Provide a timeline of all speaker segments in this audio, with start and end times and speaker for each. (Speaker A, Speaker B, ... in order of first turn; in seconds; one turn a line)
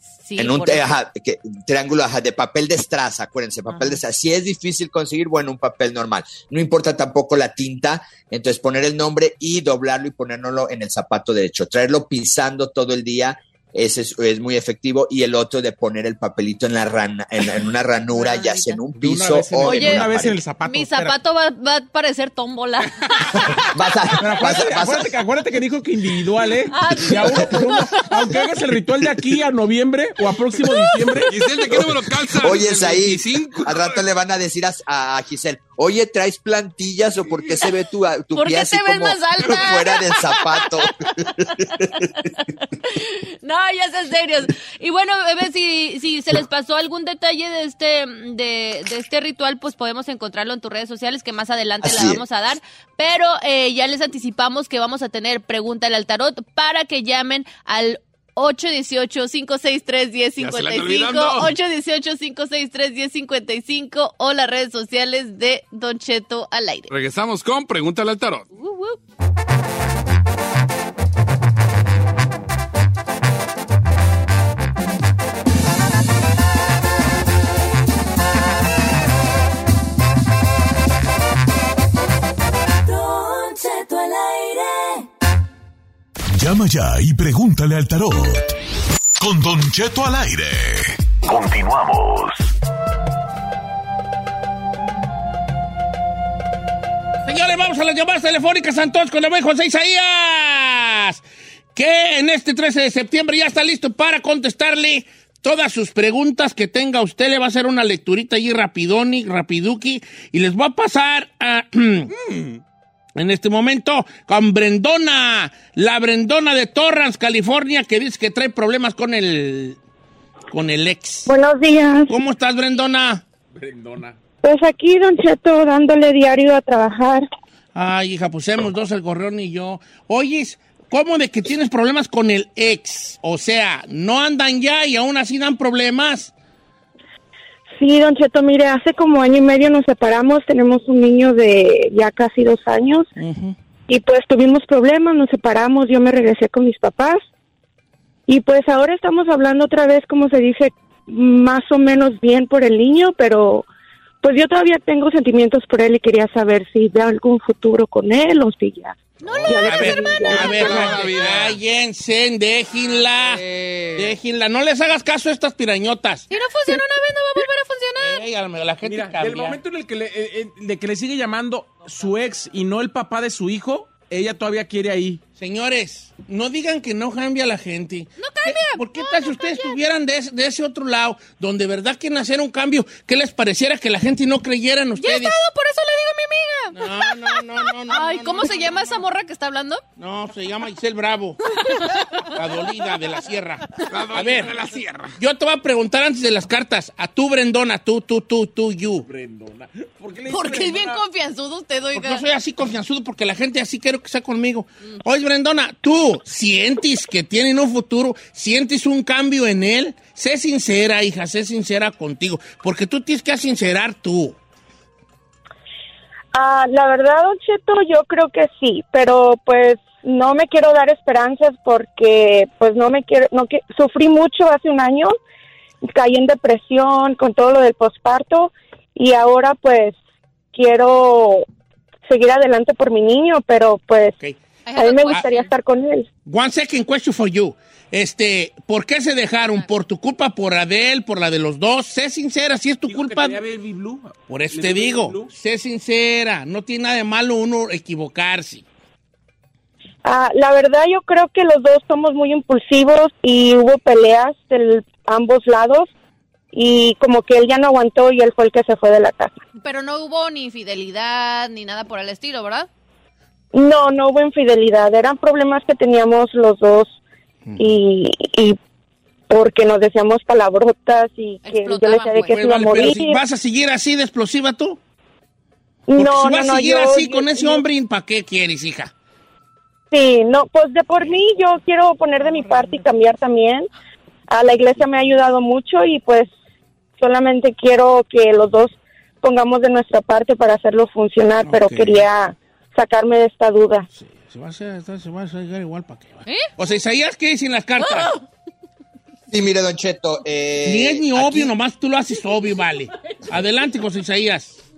Speaker A: 0.1-0.9
Speaker B: 0.4-20.4
Speaker A: 3.7-4.0
Speaker A: 18.1-18.8
Speaker C: 18.9-21.1
Speaker A: 19.6-23.6
Speaker B: 23.4-25.2
Speaker C: 24.2-31.4
Speaker A: 26.6-28.4
Speaker D: 31.2-34.0
Speaker B: 31.6-42.0
Speaker A: 37.5-37.8
Speaker A: 38.3-66.9
Speaker B: 51.8-52.2
Speaker D: 60.4-61.5
Speaker D: 66.9-68.5
Speaker A: 68.5-69.0
Speaker E: 82.8-85.1
Speaker F: 86.3-88.5
Speaker F: 89.2-92.5
Speaker G: 97.2-101.2
Speaker G: 101.7-112.1
Speaker C: 112.1-112.6
Speaker G: 113.2-119.8
Speaker G: 120.5-121.3
Speaker H: 121.2-122.1
Speaker G: 122.1-123.2
Speaker D: 123.5-124.2
Speaker H: 124.4-127.2
Speaker G: 127.7-136.3
Speaker H: 137.8-143.1
Speaker G: 143.2-143.6
Speaker H: 143.9-147.2
Speaker H: 148.3-153.7
Speaker H: 154.2-161.0
Speaker A: 159.2-161.1
Speaker D: 159.3-161.6
Speaker G: 159.5-163.4
Speaker D: 163.1-164.1
Speaker G: 163.9-166.3
Speaker A: 166.3-168.2
Speaker G: 168.0-169.6
Speaker C: 168.8-175.2
Speaker G: 175.4-185.4
Speaker A: 178.2-179.8
Speaker A: 185.0-189.8
Speaker G: 186.7-189.0
Speaker G: 190.0-191.5
Speaker A: 191.5-192.2
Speaker G: 192.2-194.6
Speaker D: 193.9-195.1
Speaker G: 195.1-199.1
Speaker C: 199.1-201.0
Speaker A: 200.3-202.2
Speaker G: 201.9-214.4
Speaker H: 216.3-225.1
Speaker H: 225.8-229.9
Speaker H: 230.5-231.4
Speaker H: 232.1-234.2
Speaker A: 234.7-235.5
Speaker H: 234.8-236.1
Speaker G: 236.2-243.4
Speaker C: 242.9-245.3
Speaker G: 244.3-248.6
Speaker H: 250.0-255.9
Speaker H: 256.5-259.3
Speaker A: 259.6-262.7
Speaker H: 263.5-267.0
Speaker G: 267.4-267.7
Speaker H: 267.6-268.6
Speaker H: 269.3-273.2
Speaker A: 271.4-272.3
Speaker G: 272.2-274.8
Speaker H: 275.9-277.6
Speaker G: 275.9-278.9
Speaker H: 279.9-283.7
Speaker H: 284.3-286.3
Speaker H: 287.0-293.9
Speaker G: 291.4-292.1
Speaker G: 293.9-298.1
Speaker A: 297.9-298.1
Speaker B: 299.3-301.5
Speaker G: 300.6-304.6